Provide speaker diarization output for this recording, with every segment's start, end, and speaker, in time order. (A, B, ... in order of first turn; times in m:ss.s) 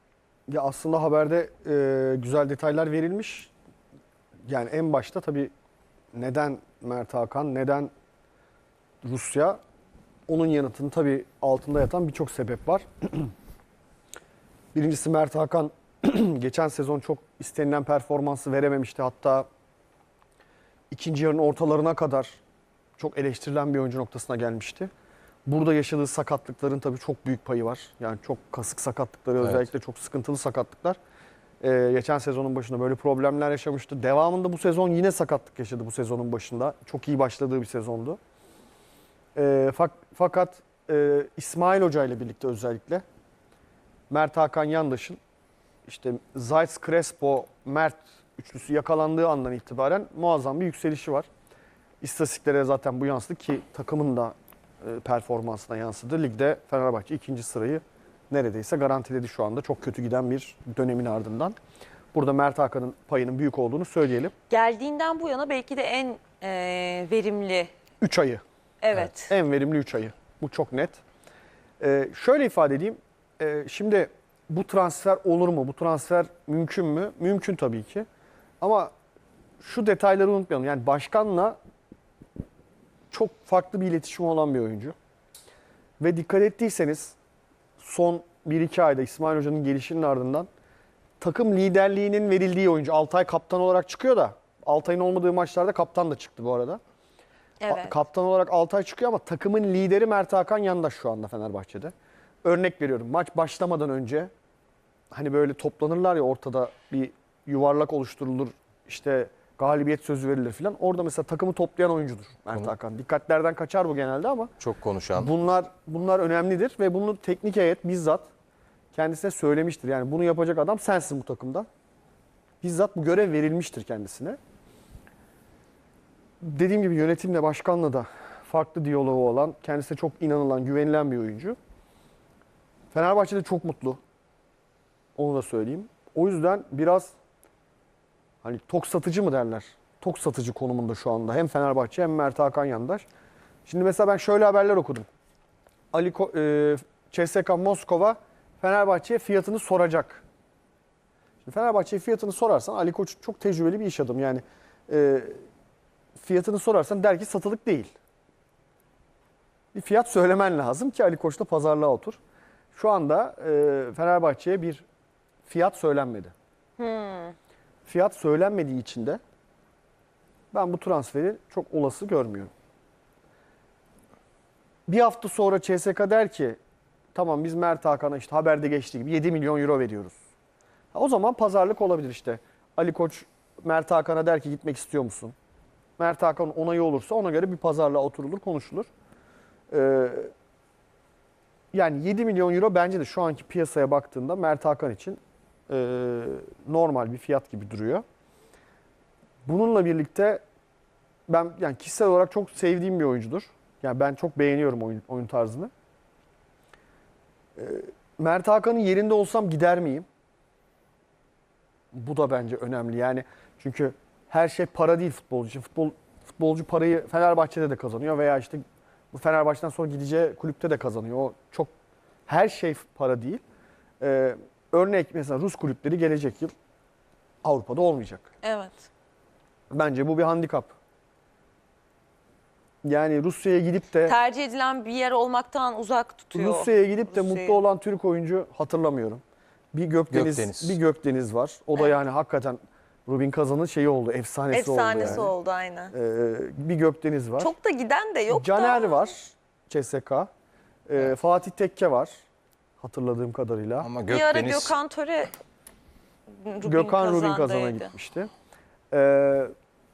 0:00.5-0:03.5 A
0:04.5-0:05.5 A
0:06.1-0:07.9 A
0:09.0-0:09.6 A
0:10.3-0:13.3 A
0:14.7-0:19.5 A
0:20.9-0:22.4 A
0:23.0-0:24.9 A
0:25.5-0:31.0 A
0:31.6-0:38.2 A
0:39.3-0:43.0 A
0:44.1-0:45.2 A
0:45.8-0:51.3 A
0:52.0-1:01.6 A
1:02.1-1:04.3 A
1:04.5-1:07.7 B
1:08.0-1:08.4 A
1:08.8-1:09.3 B
1:09.3-1:11.0 A
1:11.8-1:18.1 A
1:18.6-1:18.9 A
1:19.6-1:21.6 A
1:23.1-1:25.0 A
1:26.0-1:27.2 A
1:27.8-1:30.5 A
1:31.2-1:36.8 A
1:37.6-1:38.0 B
1:37.7-1:41.9 A
1:42.4-1:44.3 A
1:45.1-1:54.6 A
1:54.6-1:55.3 C
1:55.2-1:58.3 A
1:58.9-2:01.7 A
2:02.6-2:04.4 A
2:06.4-2:11.6 A
2:12.9-2:14.0 A
2:15.2-2:17.1 A
2:18.4-2:23.1 A
2:23.7-2:25.1 A
2:25.9-2:30.2 A
2:31.4-2:35.4 A
2:36.2-2:37.9 A
2:39.7-2:42.2 A
2:42.7-2:44.9 A
2:45.4-2:46.3 A
2:46.8-2:47.3 B
2:47.9-2:49.2 A
2:50.5-2:52.5 A
2:54.9-2:56.6 A
2:57.1-3:00.2 A
3:00.9-3:05.3 A
3:06.0-3:08.9 A
3:09.7-3:10.3 A
3:11.7-3:18.0 A
3:19.5-3:20.4 A
3:21.3-3:25.7 A
3:27.6-3:30.1 A
3:31.9-3:41.7 A
3:42.3-3:43.4 A
3:44.0-3:46.5 A
3:47.4-3:48.3 A
3:48.4-3:48.9 B
3:49.7-3:50.7 A
3:52.8-3:54.2 A
3:54.0-3:57.6 B
3:56.3-3:59.2 A
3:59.7-4:05.3 A
4:00.1-4:00.8 C
4:04.5-4:05.9 B
4:05.9-4:07.6 A
4:07.4-4:09.1 B
4:08.3-4:10.3 A
4:10.9-4:12.1 A
4:12.8-4:13.9 A
4:13.8-4:14.7 C
4:14.1-4:15.3 B
4:16.4-4:17.9 B
4:16.6-4:18.3 A
4:18.9-4:19.5 A